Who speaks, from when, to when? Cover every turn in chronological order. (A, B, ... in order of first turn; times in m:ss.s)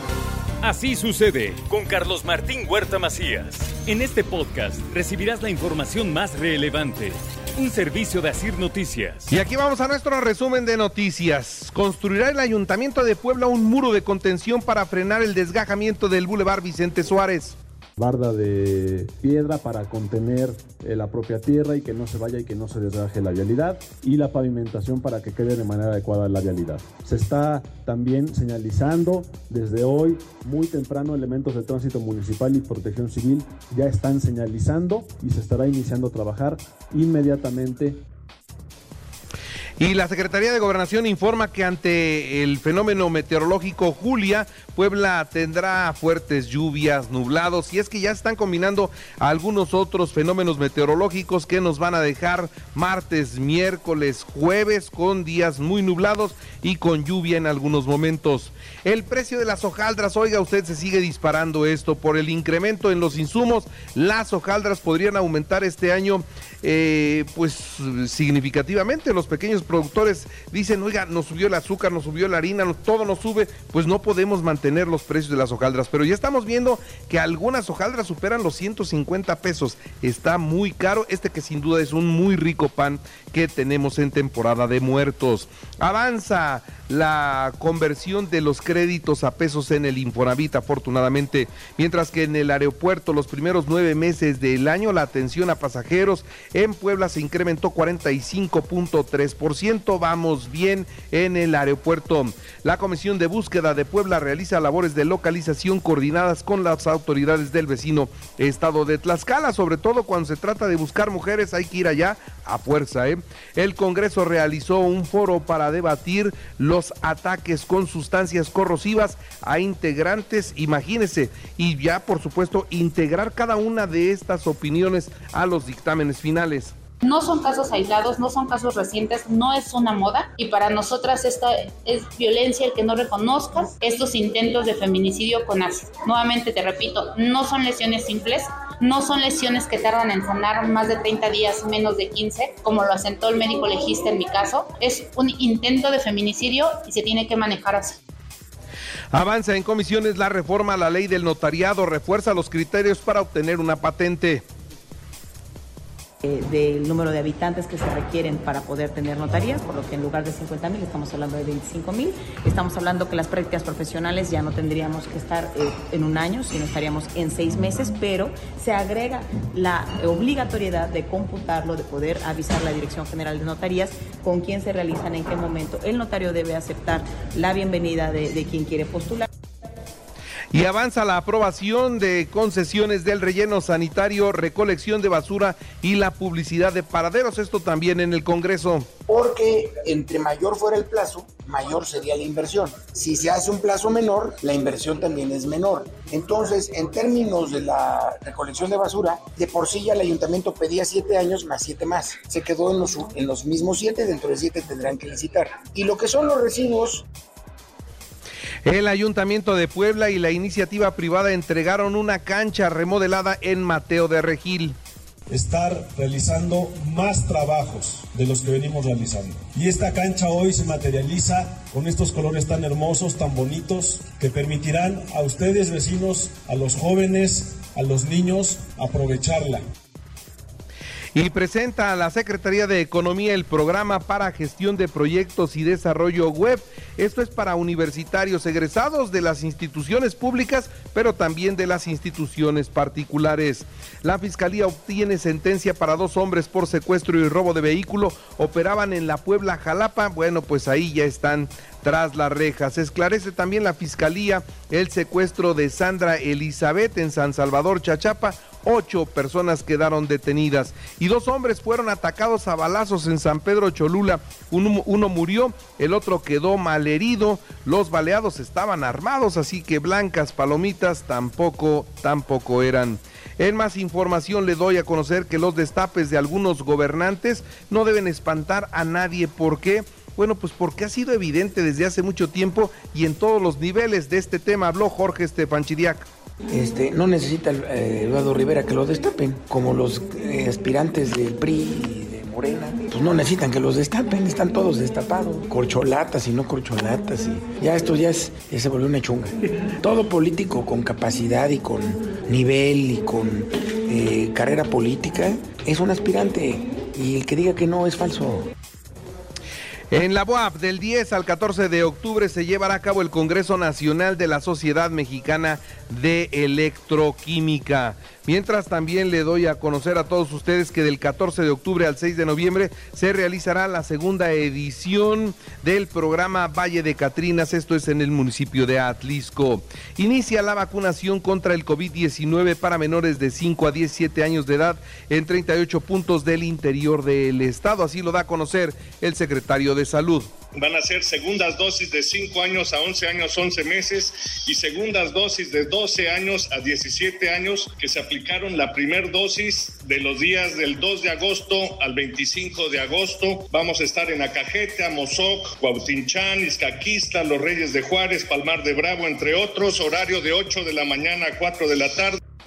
0:00.6-0:09.3 A
0:09.3-0:17.6 B
0:18.0-0:38.0 C
0:39.8-2:06.7 B
2:07.0-2:28.0 D
2:29.1-2:34.4 B
2:36.2-2:59.3 E
3:00.5-3:08.9 B
3:09.1-3:27.0 F
3:28.6-3:34.8 B
3:35.3-3:49.6 G
3:51.1-4:46.1 B
4:46.5-5:08.5 F
5:09.9-5:40.3 B
5:40.5-6:02.2 H